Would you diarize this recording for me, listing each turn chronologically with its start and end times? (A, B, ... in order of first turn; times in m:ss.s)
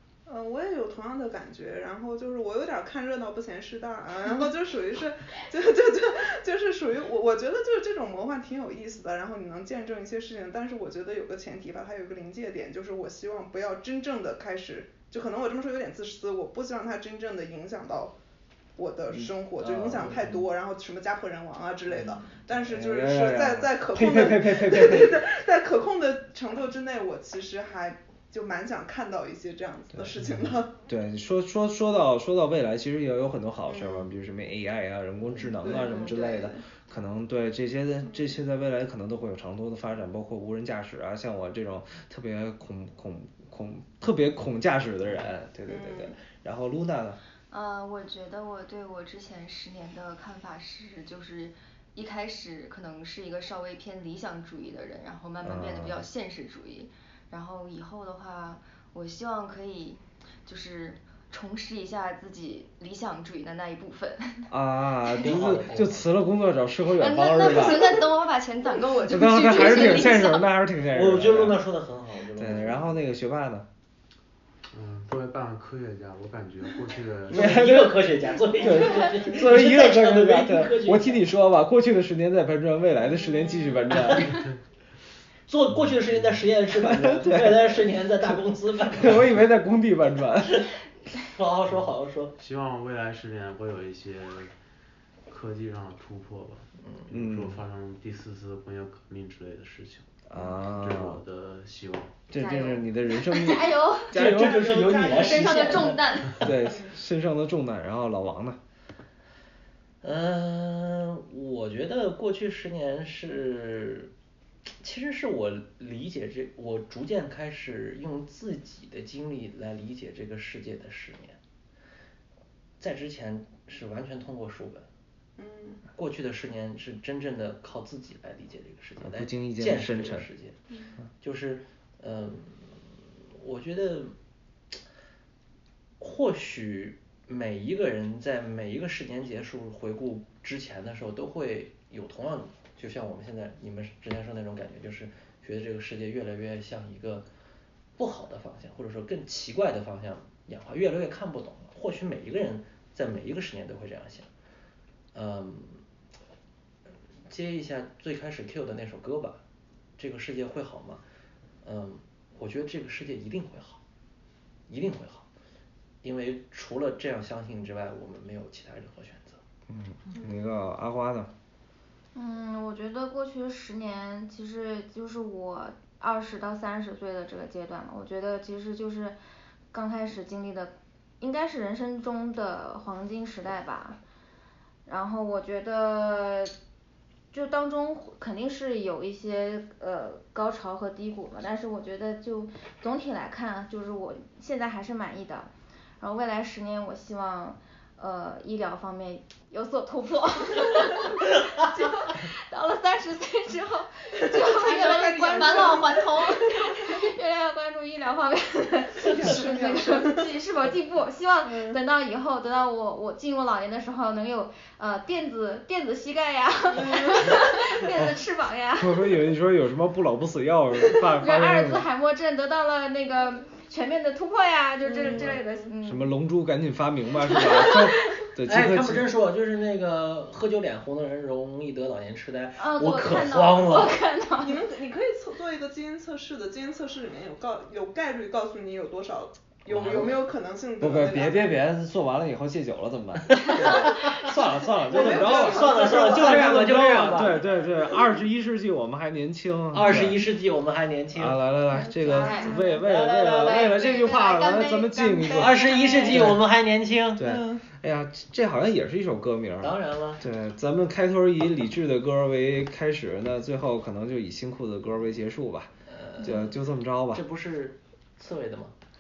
0:00.3-0:18.2 A
0:18.8-0:30.7 A
0:19.6-0:20.5 B
0:21.9-0:22.2 B
0:22.6-0:25.3 C
0:30.8-0:47.2 C
0:33.7-0:34.1 A
0:35.2-0:35.6 B
0:35.5-0:36.6 A
0:35.7-0:36.3 D
0:45.7-0:46.2 A
0:47.5-1:04.5 D
0:55.4-0:56.0 C
1:04.5-1:08.0 C
1:05.2-1:06.1 B
1:07.0-1:10.5 D
1:07.5-1:08.0 A
1:08.6-1:10.2 A
1:09.1-1:11.7 C
1:10.9-1:12.9 B
1:12.4-1:13.7 C
1:14.7-1:17.7 E
1:17.3-1:18.0 C
1:17.3-1:21.2 B
1:18.6-1:24.5 C
1:24.0-1:24.4 B
1:24.3-1:24.5 E
1:25.5-1:29.4 B
1:25.7-1:26.5 E
1:26.8-1:27.9 C
1:28.9-1:30.7 C
1:30.5-1:32.4 B
1:31.7-1:34.5 E
1:35.3-1:42.3 E
1:36.8-1:37.1 B
1:37.1-1:37.6 C
1:40.3-1:41.2 C
1:42.3-1:45.4 C
1:42.3-1:46.9 D
1:44.1-1:46.5 B
1:44.7-1:45.8 A
1:46.4-1:48.6 C
1:50.0-1:54.1 B
1:54.8-2:01.4 B
2:02.8-2:04.9 B
2:05.4-2:05.8 A
2:06.0-2:10.6 B
2:09.0-2:10.3 C
2:11.2-2:14.1 B
2:16.0-2:27.3 B
2:28.0-2:34.3 B
2:35.1-2:35.8 B
2:37.3-2:39.4 B
2:40.0-2:41.0 B
2:41.6-2:43.8 B
2:44.7-2:45.3 B
2:46.0-2:49.4 B
2:49.7-2:51.3 C
2:52.1-2:59.2 F
2:59.7-3:04.0 F
3:04.9-3:06.5 F
3:07.3-3:39.1 F
3:24.1-3:26.9 A
3:24.6-3:26.4 D
3:29.0-3:30.3 A
3:31.4-3:31.8 A
3:36.8-3:37.7 A
3:38.8-3:41.9 C
3:41.2-3:46.1 F
3:44.9-3:45.6 A
3:45.0-3:49.1 C
3:47.4-3:47.8 F
3:48.5-3:54.0 B
3:52.6-3:54.6 F
3:54.4-4:01.6 A
3:59.7-4:00.2 B
4:00.8-4:10.2 C
4:03.5-4:04.3 B
4:03.6-4:03.9 A
4:04.9-4:07.3 A
4:04.9-4:07.4 B
4:09.7-4:11.4 B
4:11.1-4:16.5 C
4:11.9-4:12.7 F
4:12.0-4:12.5 A
4:12.1-4:12.6 D
4:12.8-4:13.8 B
4:13.3-4:15.7 D
4:15.2-4:16.2 F
4:15.3-4:17.2 B
4:17.2-4:27.2 C
4:17.2-4:17.6 A
4:19.6-4:20.2 B
4:25.9-4:26.6 B
4:27.1-4:28.8 B